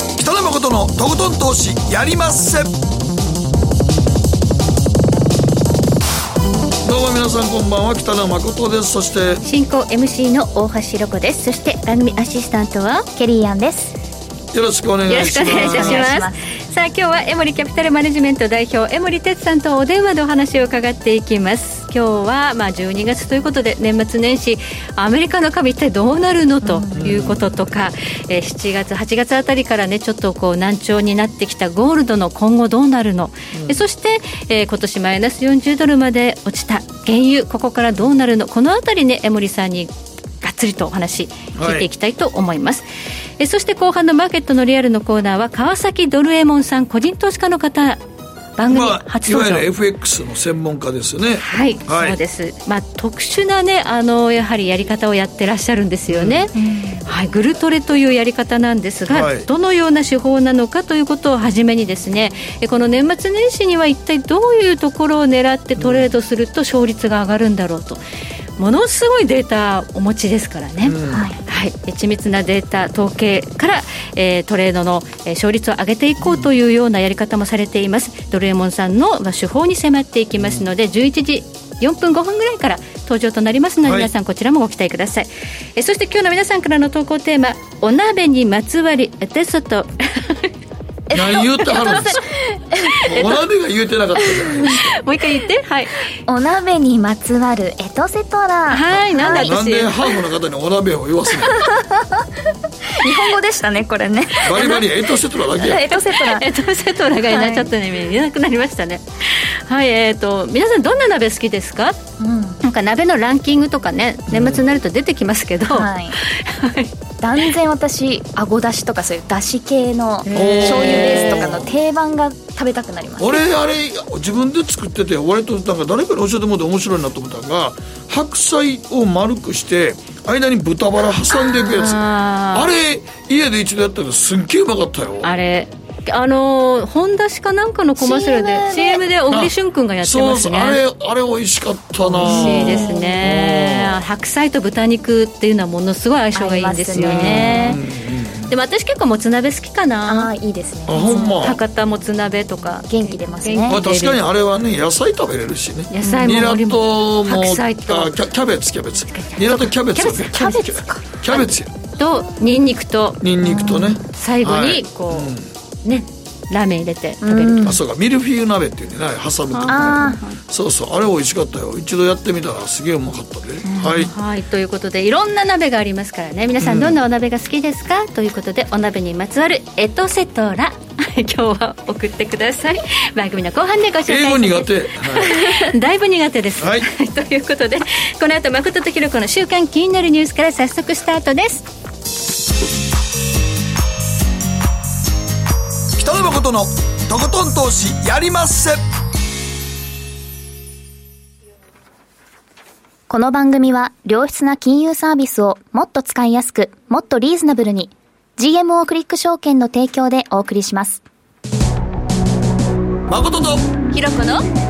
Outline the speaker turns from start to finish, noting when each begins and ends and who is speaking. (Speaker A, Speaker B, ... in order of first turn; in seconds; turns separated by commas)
Speaker A: 0.2-2.7, Speaker A: 6.8-9.4, Speaker B: 9.4-13.1, Speaker C: 13.2-13.9, Speaker A: 14.5-16.1, Speaker B: 15.1-42.9, Speaker C: 15.4-16.4, Speaker C: 26.6-26.9, Speaker A: 26.9-27.4, Speaker A: 33.5-33.8, Speaker A: 41.5-41.9, Speaker B: 43.4-48.0, Speaker B: 48.6-49.6, Speaker A: 48.7-52.2, Speaker B: 51.4-68.0, Speaker A: 56.1-56.5, Speaker C: 56.5-57.0, Speaker A: 59.1-59.5, Speaker A: 65.8-66.1, Speaker B: 68.6-90.5, Speaker A: 70.8-71.3, Speaker C: 71.1-71.4, Speaker A: 76.2-76.5, Speaker A: 80.4-80.6, Speaker A: 83.8-84.1, Speaker C: 91.1-93.1, Speaker A: 91.1-92.2, Speaker B: 91.7-92.0, Speaker A: 93.0-94.8, Speaker B: 94.6-96.1, Speaker C: 96.3-99.5, Speaker B: 98.7-99.9, Speaker A: 99.2-101.6, Speaker C: 101.6-102.3, Speaker C: 102.9-104.8, Speaker A: 104.4-105.9, Speaker C: 105.5-106.5, Speaker B: 105.9-112.0, Speaker C: 107.3-107.7, Speaker C: 112.2-112.6, Speaker B: 112.6-116.9, Speaker A: 114.3-114.6, Speaker C: 115.7-116.2, Speaker C: 117.2-123.4, Speaker B: 120.2-121.6, Speaker A: 120.3-121.7, Speaker A: 123.2-135.3, Speaker B: 131.6-132.7, Speaker B: 135.2-140.8, Speaker C: 138.0-139.0, Speaker A: 139.3-144.0, Speaker B: 142.0-147.8, Speaker C: 142.2-143.1, Speaker C: 146.3-147.8, Speaker A: 147.0-148.5, Speaker B: 148.5-150.3, Speaker C: 150.1-151.3, Speaker A: 150.8-151.6, Speaker B: 150.9-154.2, Speaker C: 152.9-153.8, Speaker A: 153.7-161.7, Speaker B: 155.9-158.2, Speaker B: 159.2-160.6, Speaker C: 160.1-161.0, Speaker B: 161.3-163.2, Speaker A: 163.2-165.5, Speaker C: 163.4-164.0, Speaker B: 164.1-165.3, Speaker B: 165.8-167.8, Speaker C: 167.2-167.8, Speaker A: 167.6-174.1, Speaker B: 169.5-170.1, Speaker C: 169.7-170.4, Speaker C: 173.7-173.9, Speaker B: 174.0-191.7, Speaker A: 176.6-176.9, Speaker A: 184.1-185.3, Speaker A: 186.6-186.8, Speaker A: 196.0-198.8, Speaker C: 203.1-211.0, Speaker A: 213.1-213.7, Speaker B: 213.9-214.4